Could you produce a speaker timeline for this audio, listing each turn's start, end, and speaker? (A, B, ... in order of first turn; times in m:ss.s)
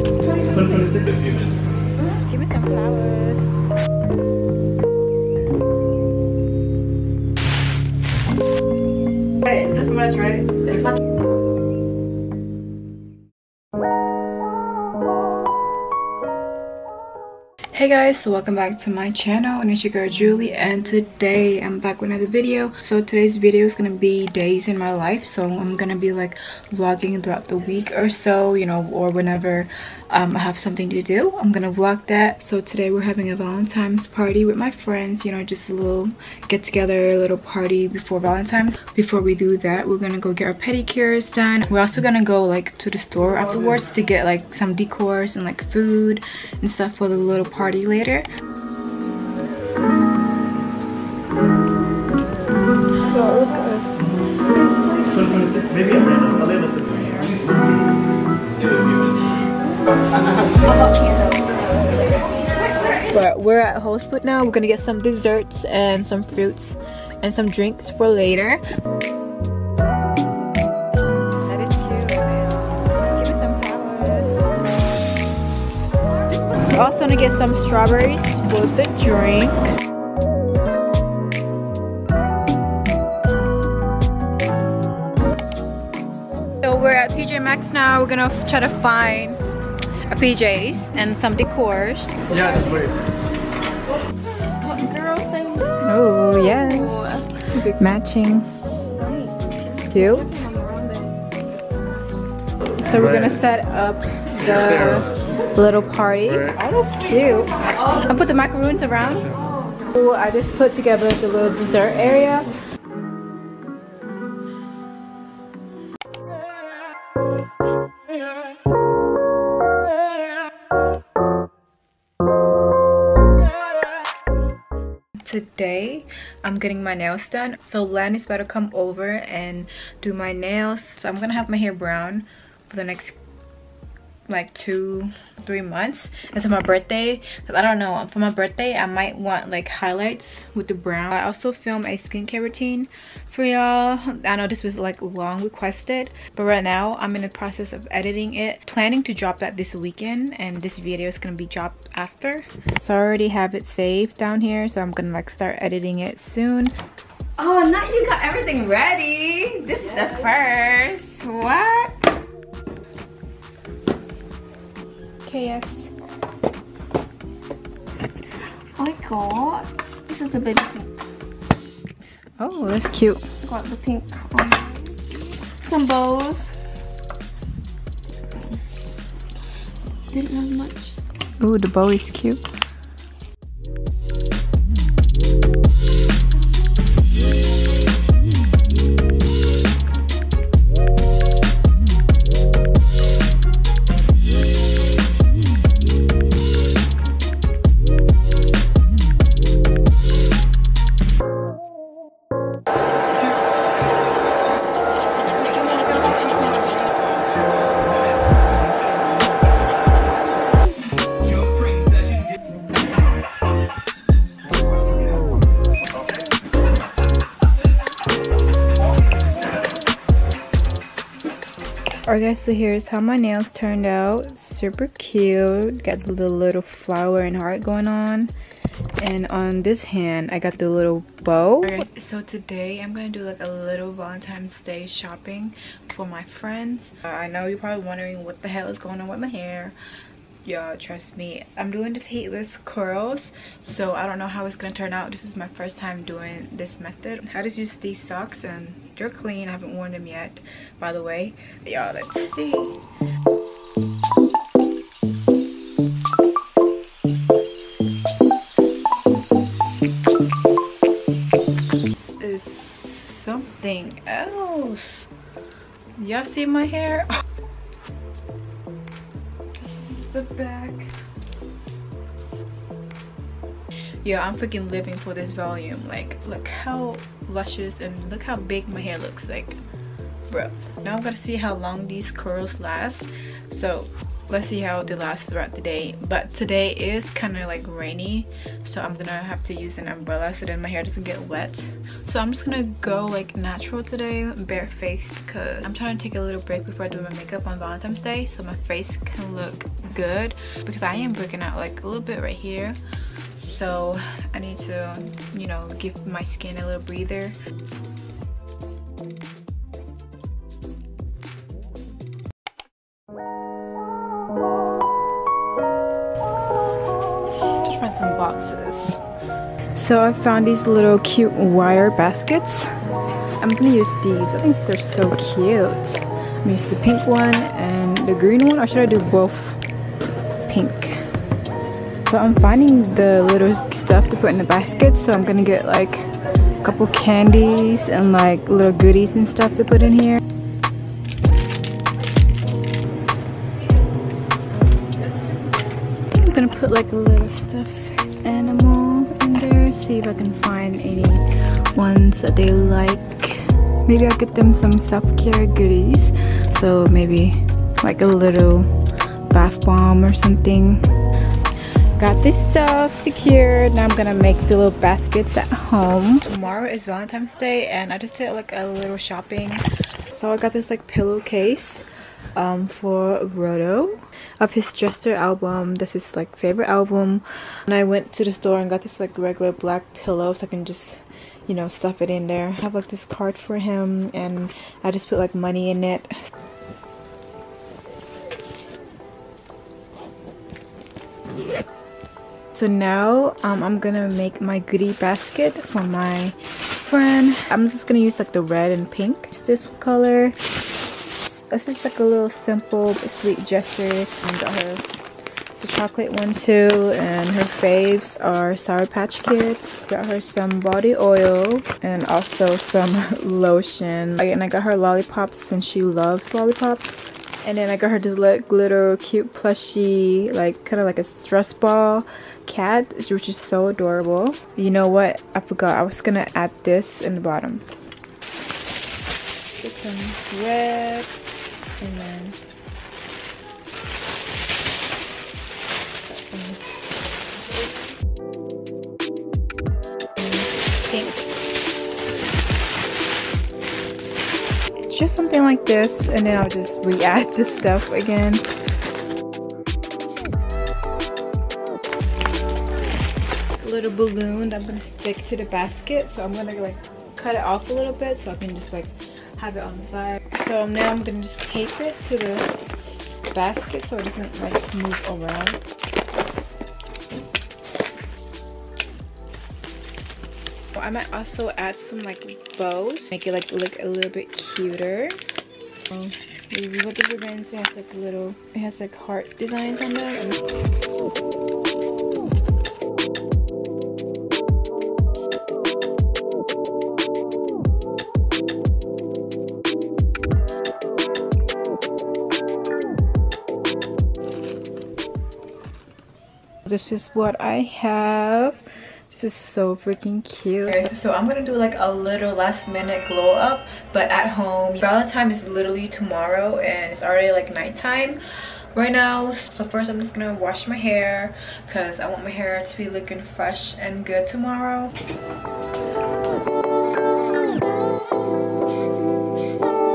0:00.4-0:01.6 A
0:02.0-0:03.5 B
0:09.4-0:11.0 B
0:17.7-0:48.2 B
0:53.1-0:54.1 B
0:54.5-0:55.4 C
0:55.1-0:57.8 A
0:56.9-0:57.4 B
0:58.5-0:59.4 A
1:00.2-1:00.7 A
1:00.4-1:03.1 C
1:03.1-1:08.6 B
1:11.4-1:14.4 B
1:16.3-1:16.7 C
1:16.6-1:19.7 B
1:26.6-1:29.4 B
1:30.1-1:32.3 B
1:32.3-1:32.9 C
1:34.6-1:37.5 C
1:35.8-1:37.0 B
1:37.5-1:38.5 B
1:38.9-1:41.2 C
1:39.9-1:40.5 B
1:42.8-1:49.3 B
1:45.1-1:45.4 A
1:47.7-1:48.1 C
1:49.2-1:49.9 C
1:49.9-1:52.5 B
2:05.2-2:13.2 B
2:14.3-2:36.7 B
2:37.4-2:42.0 C
2:45.2-2:45.9 B
2:48.7-2:50.9 C
2:52.4-2:53.2 B
2:53.4-2:56.5 C
3:00.1-3:01.0 C
3:01.4-3:02.4 B
3:25.3-3:26.1 C
3:25.3-3:26.6 B
3:42.1-3:48.3 B
3:49.0-3:59.7 B
4:00.4-4:12.8 B
4:21.9-4:25.1 B
4:26.0-4:27.1 B
4:29.6-4:30.9 B
4:34.0-4:39.6 B
4:40.3-5:02.8 B
5:03.4-5:07.3 B
5:17.5-5:19.0 B
5:19.7-5:22.7 B
5:23.4-5:29.6 B
5:30.5-5:31.0 B
5:32.0-5:36.1 B
5:36.6-5:40.2 B
5:46.1-5:58.7 B
5:59.3-6:00.8 B
6:02.0-6:11.8 B
6:12.4-6:26.1 B
6:32.5-6:40.4 B
6:41.5-6:44.8 B
6:45.6-7:07.6 B
7:09.6-7:11.1 B
7:11.8-7:12.4 B
7:16.0-7:16.6 B
7:20.9-7:21.2 B
7:24.9-7:28.4 B
7:33.6-7:42.6 B
7:43.3-7:45.6 B
7:50.7-7:55.2 B
7:55.9-8:00.4 B
8:16.7-8:34.9 B